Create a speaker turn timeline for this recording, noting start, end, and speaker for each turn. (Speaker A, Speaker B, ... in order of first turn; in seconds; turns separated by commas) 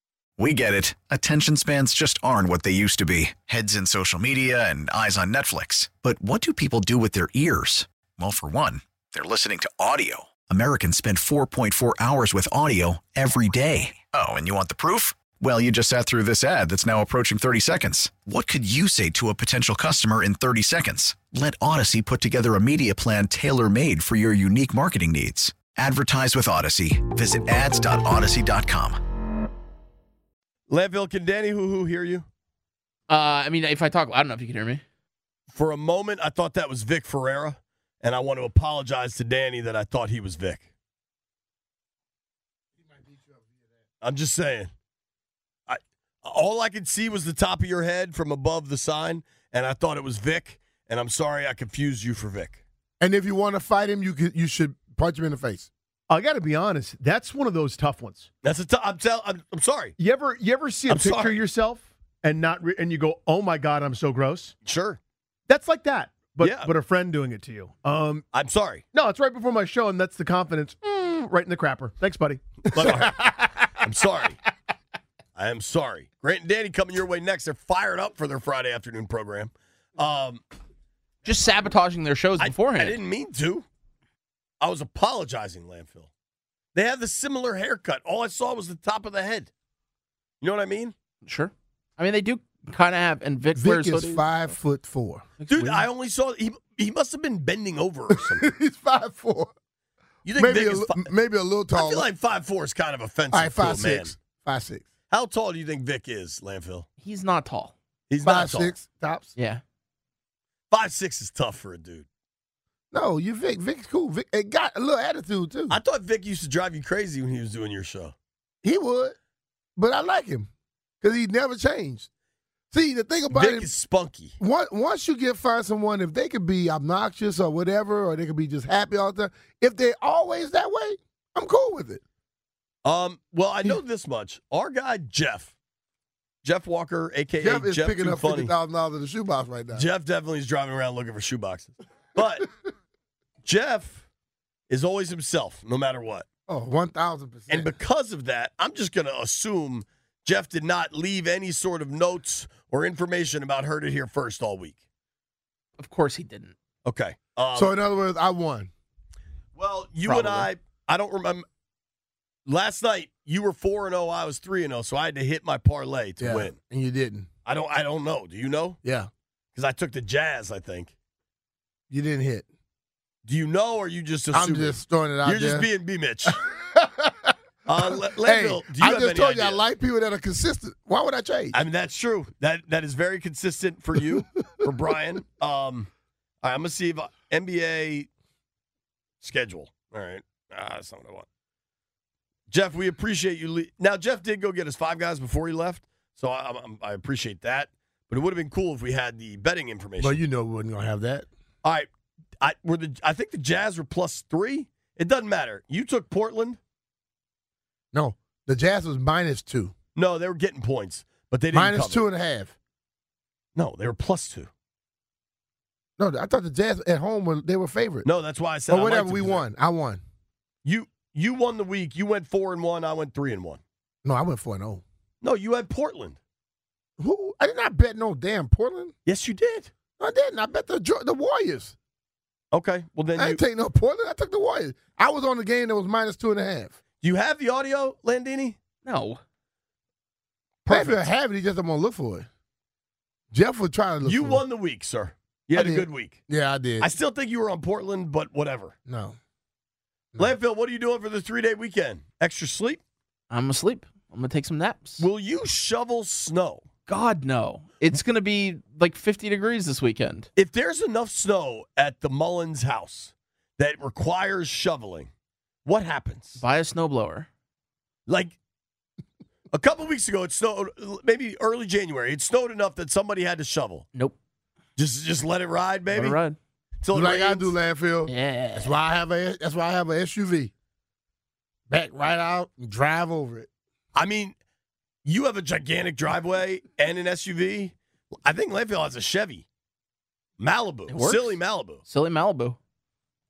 Speaker A: 0.4-29.0, Speaker B: 30.7-32.3, Speaker C: 33.1-34.8, Speaker B: 35.5-40.7, Speaker D: 42.8-43.8, Speaker B: 44.0-44.7, Speaker B: 45.7-52.6, Speaker D: 53.0-55.7, Speaker E: 56.1-58.3, Speaker B: 58.4-60.0, Speaker E: 60.0-64.5, Speaker B: 60.9-61.5, Speaker B: 64.7-65.0, Speaker E: 65.5-68.2, Speaker B: 66.4-66.7, Speaker B: 68.3-68.9, Speaker E: 68.9-73.1, Speaker B: 72.7-74.4, Speaker B: 75.4-80.4, Speaker C: 81.2-83.0, Speaker B: 82.4-83.7, Speaker B: 84.6-86.1, Speaker B: 86.8-89.5, Speaker B: 90.4-90.9, Speaker C: 91.2-94.3, Speaker D: 93.5-95.3, Speaker C: 95.4-95.9, Speaker B: 95.5-98.5, Speaker D: 98.2-99.5, Speaker B: 100.2-101.1, Speaker D: 100.4-102.1, Speaker B: 101.8-104.2, Speaker D: 103.3-104.9, Speaker B: 105.1-106.9, Speaker C: 107.0-107.7, Speaker B: 108.1-108.7, Speaker D: 108.2-109.3, Speaker C: 109.4-109.6, Speaker B: 110.7-112.1, Speaker D: 112.9-115.8, Speaker B: 115.7-118.1, Speaker D: 118.6-119.2, Speaker D: 119.8-120.5, Speaker D: 121.0-122.1, Speaker D: 122.7-123.7, Speaker B: 123.3-124.3, Speaker D: 124.4-132.0, Speaker B: 132.8-135.5, Speaker B: 136.4-138.5, Speaker D: 137.4-139.9, Speaker B: 139.7-142.5, Speaker B: 143.4-144.1, Speaker B: 144.7-146.3, Speaker D: 146.5-147.7, Speaker B: 147.5-154.8, Speaker C: 155.8-156.6, Speaker B: 156.8-157.7, Speaker D: 157.6-158.7, Speaker B: 159.6-161.4, Speaker D: 160.0-160.5, Speaker B: 162.5-166.6, Speaker D: 166.2-167.3, Speaker B: 167.4-168.8, Speaker D: 168.8-169.1, Speaker B: 169.6-170.9, Speaker D: 171.9-172.5, Speaker B: 173.2-176.4, Speaker D: 174.3-175.7, Speaker D: 176.3-181.6, Speaker B: 177.7-179.6, Speaker B: 181.5-185.9, Speaker B: 186.4-188.1, Speaker B: 189.2-191.3, Speaker B: 192.5-200.2, Speaker D: 200.0-201.3, Speaker B: 202.4-206.6, Speaker D: 207.9-209.8, Speaker B: 210.0-212.1, Speaker D: 211.5-212.6, Speaker B: 213.6-214.5, Speaker D: 216.0-218.1, Speaker B: 218.0-219.4, Speaker D: 218.7-220.0, Speaker B: 220.7-223.6, Speaker D: 224.0-224.8, Speaker B: 225.2-226.2, Speaker D: 227.0-228.9, Speaker B: 229.1-229.7, Speaker D: 230.0-231.8, Speaker B: 232.5-233.4, Speaker D: 233.2-236.8, Speaker B: 237.0-238.6, Speaker C: 238.8-239.2, Speaker B: 240.7-241.1, Speaker D: 240.7-242.3, Speaker D: 243.3-244.4, Speaker B: 244.0-246.2, Speaker D: 245.6-246.9, Speaker B: 246.8-248.8, Speaker D: 248.9-249.2, Speaker B: 250.2-252.8, Speaker C: 253.3-255.1, Speaker B: 255.0-256.7, Speaker C: 256.9-260.3, Speaker B: 260.4-265.1, Speaker B: 265.6-266.4, Speaker C: 266.4-267.3, Speaker B: 268.1-268.4, Speaker B: 269.5-273.9, Speaker B: 274.8-276.2, Speaker C: 275.9-276.4, Speaker B: 276.8-277.5, Speaker D: 276.9-280.5, Speaker C: 278.1-278.7, Speaker D: 281.7-283.5, Speaker B: 283.9-284.4, Speaker B: 285.1-289.5, Speaker B: 290.4-291.8, Speaker C: 290.9-292.6